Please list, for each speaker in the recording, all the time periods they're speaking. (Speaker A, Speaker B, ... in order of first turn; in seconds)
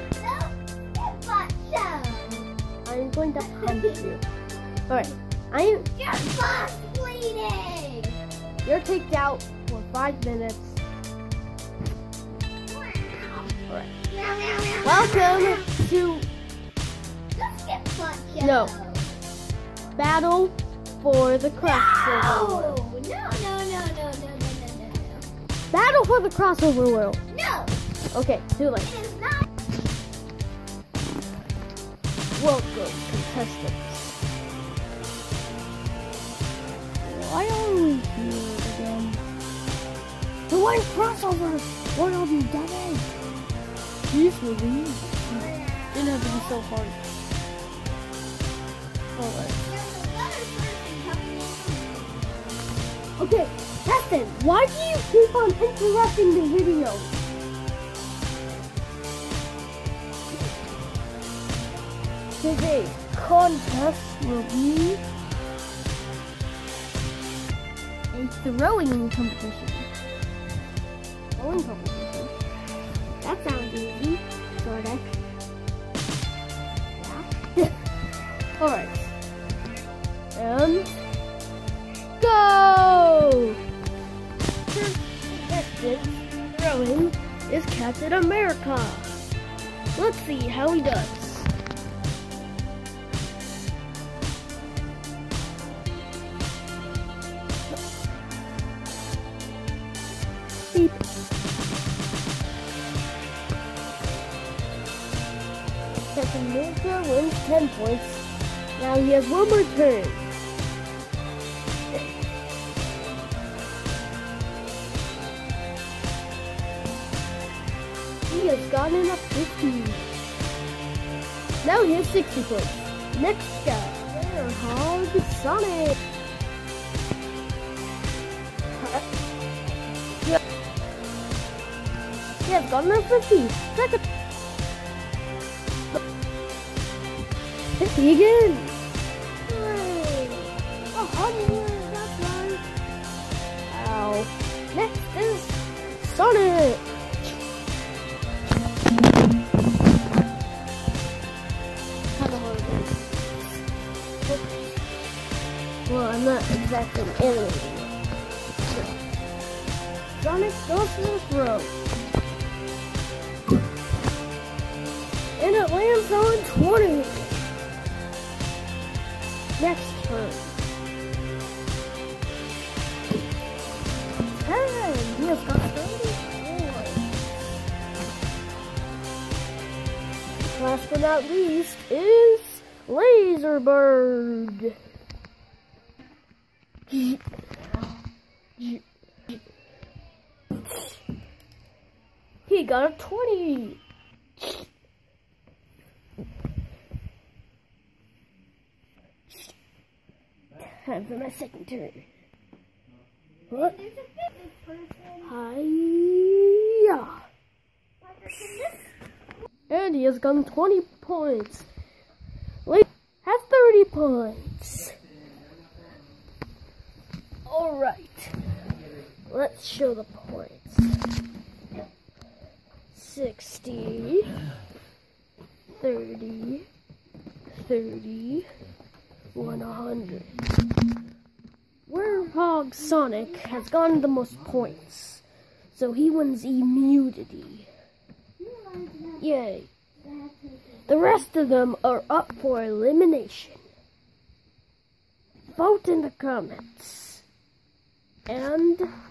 Speaker A: 0.2-2.5, 3.4-4.0, 6.0-8.2, 12.7-13.5, 14.1-15.7, 17.4-19.1, 21.6-25.3, 27.3-27.8, 28.8-29.5, 45.3-46.6, 49.6-52.6, 203.5-205.3, 208.0-208.8, 238.4-239.2
Speaker B: 2.9-4.2, 4.9-5.9, 8.6-10.8, 14.8-16.3, 18.4-18.7, 20.0-22.8, 25.7-27.2, 28.1-28.9, 32.4-34.2, 37.0-39.3, 40.5-43.1, 44.1-47.0, 49.2-49.6, 53.2-57.1, 62.4-65.0, 68.1-69.9, 71.4-72.4, 73.2-75.2, 77.0-77.8, 78.6-79.1, 80.3-80.9, 82.2-83.6, 84.7-89.2, 90.0-91.5, 100.7-101.0, 106.1-108.2, 108.8-110.3, 118.3-120.0, 121.6-126.0, 128.8-129.1, 132.4-134.0, 137.8-138.8, 139.5-142.7, 143.7-146.9, 152.2-153.6, 155.9-157.9, 158.7-158.9, 160.1-161.8, 165.4-167.5, 169.6-170.7, 174.3-177.2, 180.5-184.8, 186.9-187.2, 188.6-188.8, 192.5-193.8, 194.4-194.7, 200.6-202.1, 205.2-207.2, 209.7-211.7, 212.7-215.0, 217.5-218.4, 219.3-220.9, 222.9-224.4, 225.8-226.7, 227.5-228.5, 229.3-230.3, 231.9-237.7, 239.2-239.7, 240.9-243.6, 245.5-247.2, 248.3-248.9